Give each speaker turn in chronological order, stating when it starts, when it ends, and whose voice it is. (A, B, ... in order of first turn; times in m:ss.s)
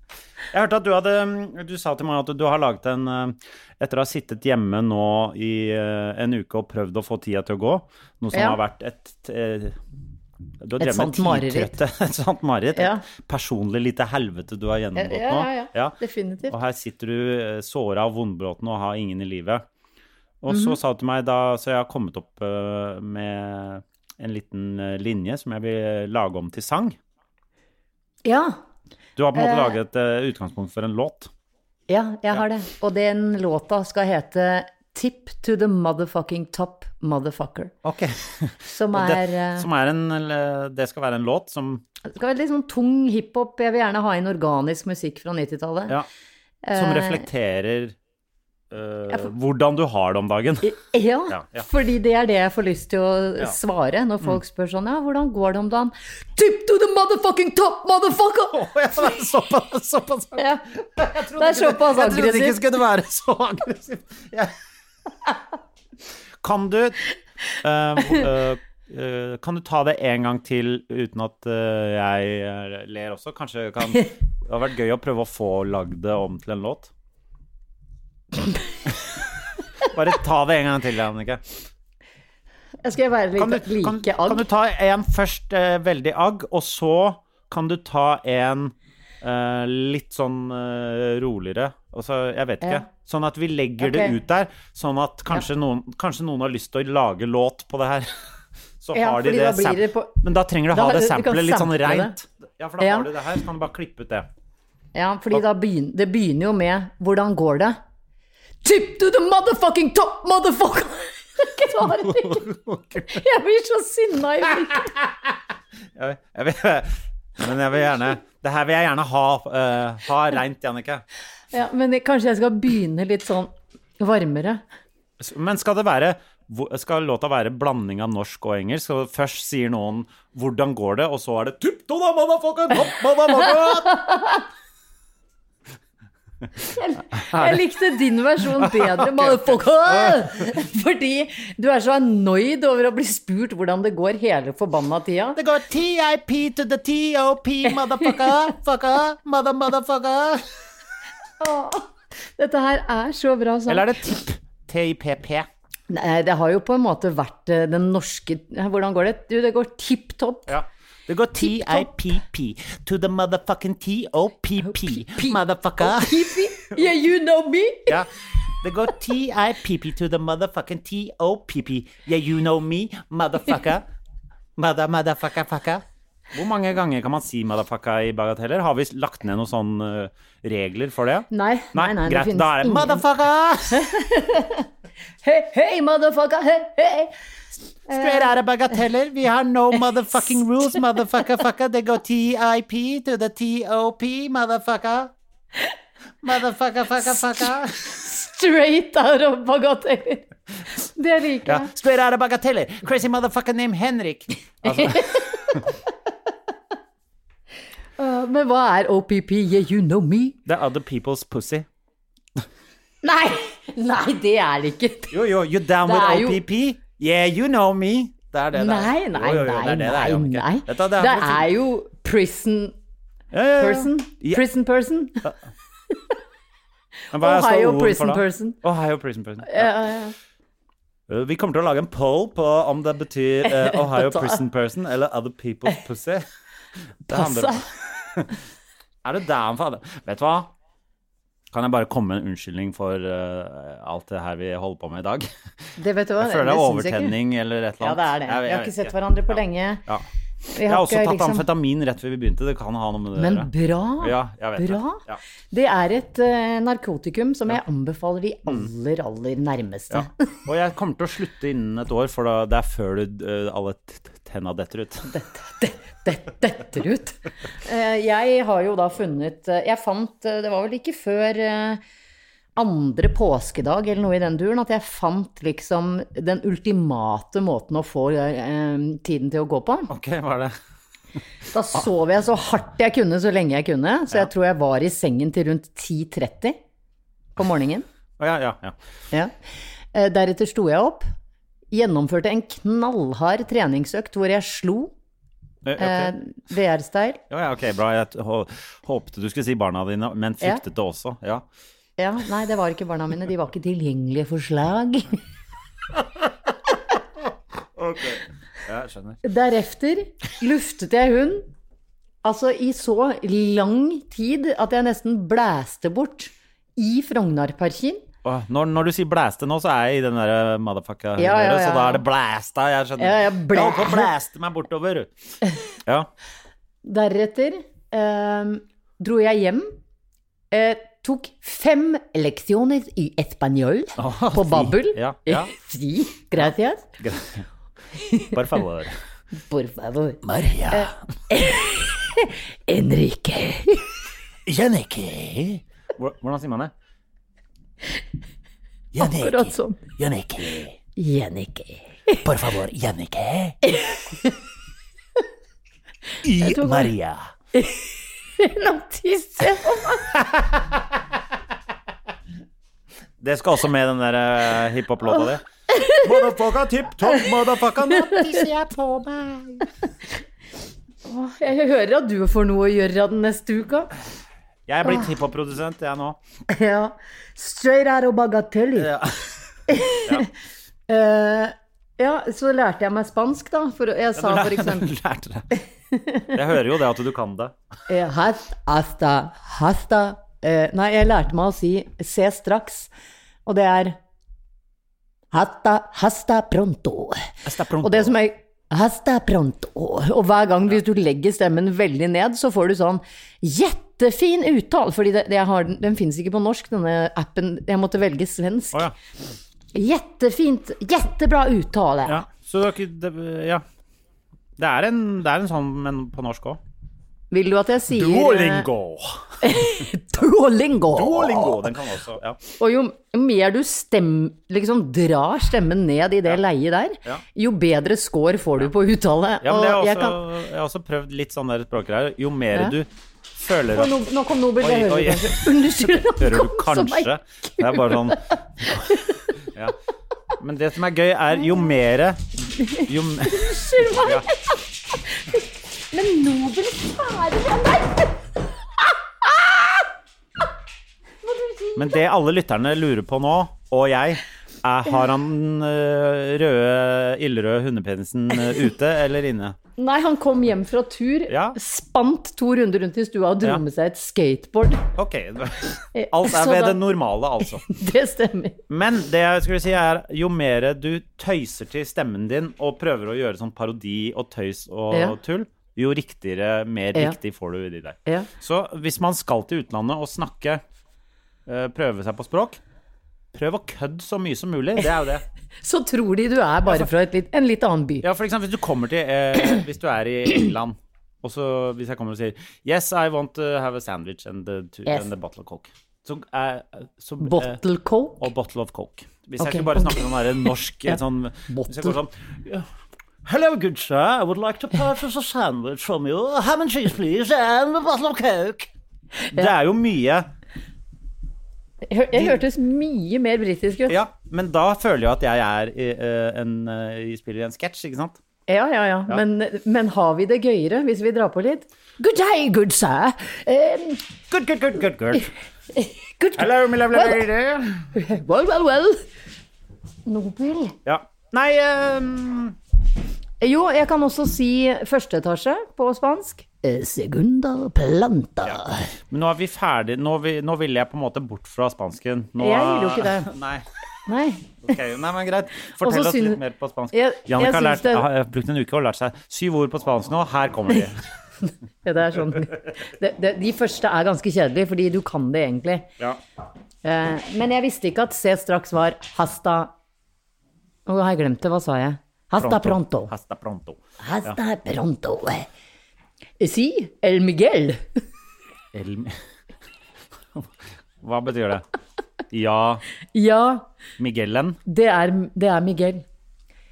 0:00.5-0:09.8 A
0:08.3-0:08.6 B
0:10.6-0:16.0 A
0:10.8-0:11.8 B
0:12.8-0:13.0 B
0:15.0-0:16.6 B
0:16.5-0:19.6 A
0:20.4-0:27.0 A
0:20.5-0:20.8 B
0:28.2-0:28.6 B
0:29.2-0:31.3 A
0:29.4-0:29.8 B
0:31.9-0:37.7 B
0:37.8-0:41.8 A
0:38.7-0:39.7 B
0:42.0-0:46.0 B
0:46.6-0:47.2 B
0:46.8-0:48.0 A
0:48.7-0:50.7 A
0:50.6-0:58.6 B
0:51.3-0:51.6 A
0:58.5-1:04.5 A
1:00.4-1:00.6 B
1:01.4-1:02.6 B
1:06.4-1:16.9 A
1:19.8-1:21.4 A
1:22.8-1:24.4 B
1:23.4-1:38.1 A
1:33.8-1:34.2 B
1:38.8-1:44.3 A
1:38.9-1:40.2 B
1:40.7-1:42.2 B
1:42.8-1:43.1 B
1:45.0-1:47.8 B
1:48.6-1:52.5 B
1:52.1-1:53.1 A
1:53.1-1:54.9 B
1:56.0-2:01.0 A
2:01.5-2:04.6 B
2:05.2-2:14.1 A
2:13.6-2:14.4 B
2:16.7-2:25.4 B
2:17.3-2:17.6 A
2:18.6-2:20.2 A
2:25.4-2:30.5 A
2:31.4-2:33.9 B
2:33.7-2:35.5 A
2:35.9-2:40.5 B
2:40.5-2:46.4 A
2:41.4-2:41.9 B
2:44.6-2:48.0 B
2:48.6-2:53.8 A
2:54.6-3:03.9 A
3:01.3-3:03.0 B
3:03.7-3:04.7 B
3:05.2-3:07.1 B
3:07.9-3:08.3 B
3:07.9-3:15.1 A
3:16.2-3:17.9 A
3:18.0-3:20.3 B
3:21.0-3:21.7 B
3:21.5-3:25.6 A
3:24.7-3:25.6 B
3:28.0-3:30.4 B
3:30.5-3:31.7 A
3:33.0-3:35.2 B
3:35.1-3:41.5 A
3:35.8-3:36.4 B
3:38.6-3:42.8 B
3:43.3-3:44.4 A
3:43.6-3:45.3 B
3:47.1-3:49.7 A
3:47.1-3:48.6 B
3:49.4-3:50.2 B
3:51.1-3:56.2 A
3:53.6-3:54.4 B
3:57.1-3:58.3 A
3:57.1-3:57.6 B
3:59.0-4:00.5 A
4:01.5-4:05.3 A
4:05.8-4:07.2 B
4:06.2-4:09.4 A
4:07.8-4:09.8 B
4:10.5-4:11.4 B
4:10.7-4:13.5 A
4:13.2-4:20.1 B
4:14.0-4:15.2 A
4:19.9-4:25.1 A
4:25.1-4:31.8 B
4:32.6-4:39.9 B
4:39.9-4:40.5 A
4:41.5-4:46.6 B
4:47.4-4:47.8 B
4:48.2-4:48.8 A
4:49.9-4:51.1 B
4:51.7-4:54.9 B
4:55.6-4:56.1 A
4:55.8-4:57.2 B
4:57.3-5:01.4 A
5:02.0-5:05.2 B
5:07.8-5:09.2 A
5:09.2-5:11.5 B
5:12.2-5:18.0 B
5:18.2-5:25.1 A
5:21.2-5:22.0 B
5:23.0-5:24.1 B
5:26.8-5:29.8 B
5:30.5-5:36.9 B
5:34.0-5:35.5 A
5:37.0-5:37.4 A
5:38.0-5:38.4 B
5:38.2-5:39.0 A
5:39.4-5:43.9 B
5:40.2-5:40.9 A
5:44.5-5:46.7 A
5:48.9-5:50.8 A
5:49.0-5:49.8 B
5:51.0-5:52.2 B
5:52.2-5:53.6 A
5:53.6-5:54.3 B
5:56.2-5:57.3 A
5:56.3-5:56.9 B
5:57.5-6:00.2 B
6:00.1-6:00.8 A
6:03.2-6:09.7 A
6:05.7-6:06.1 B
6:11.1-6:13.9 B
6:14.7-6:16.2 A
6:16.5-6:18.9 B
6:18.8-6:19.3 A
6:19.7-6:20.3 B
6:20.9-6:24.9 B
6:24.2-6:25.5 A
6:25.9-6:26.3 B
6:26.3-6:27.5 A
6:27.9-6:32.9 B
6:33.5-6:34.0 B
6:35.3-6:37.3 B
6:37.4-6:38.1 A
6:37.8-6:48.9 B
6:49.8-6:52.2 B
6:52.1-6:53.6 A
6:54.6-6:56.6 A
6:57.3-6:58.7 B
6:57.9-6:59.4 A
6:59.4-7:01.7 B
7:00.9-7:02.4 A
7:02.6-7:10.2 B
7:09.4-7:13.9 A
7:13.7-7:19.2 B
7:14.6-7:18.9 A
7:20.4-7:24.3 A
7:22.7-7:24.6 B
7:25.1-7:25.4 B
7:25.9-7:28.2 B
7:28.8-7:29.8 B
7:31.2-7:32.0 B
7:31.8-7:39.6 A
7:39.8-7:44.9 B
7:41.3-7:41.6 A
7:45.0-7:47.7 A
7:45.9-7:46.8 B
7:47.6-7:48.6 B
7:48.7-8:00.6 A
7:54.9-7:55.2 B
8:01.5-8:02.6 A
8:03.3-8:05.2 A
8:05.6-8:08.0 B
8:08.0-8:17.6 A
8:17.2-8:18.3 B
8:18.2-8:22.7 A
8:19.4-8:20.0 B
8:21.5-8:22.0 B
8:23.2-8:28.7 A
8:29.3-8:30.3 A
8:31.9-8:34.0 B
8:33.9-8:38.2 A
8:38.5-8:44.0 B
8:44.3-8:45.3 A
8:45.8-8:47.2 B
8:46.4-8:47.9 A
8:47.9-8:49.1 B
8:50.1-8:50.8 B
8:50.9-8:52.6 A
8:53.4-8:58.9 B
8:58.4-9:03.6 A
9:02.4-9:03.3 B
9:04.1-9:04.6 B
9:04.6-9:11.0 A
9:05.8-9:06.4 B
9:06.9-9:08.1 B
9:11.8-9:15.9 B
9:16.8-9:19.7 B
9:20.9-9:23.1 B
9:22.4-9:24.4 A
9:24.0-9:25.5 B
9:26.4-9:28.0 B
9:28.7-9:29.2 A
9:31.0-9:31.6 A
9:32.3-9:32.8 A
9:33.1-9:33.7 B
9:34.0-9:34.6 A
9:34.7-9:36.0 B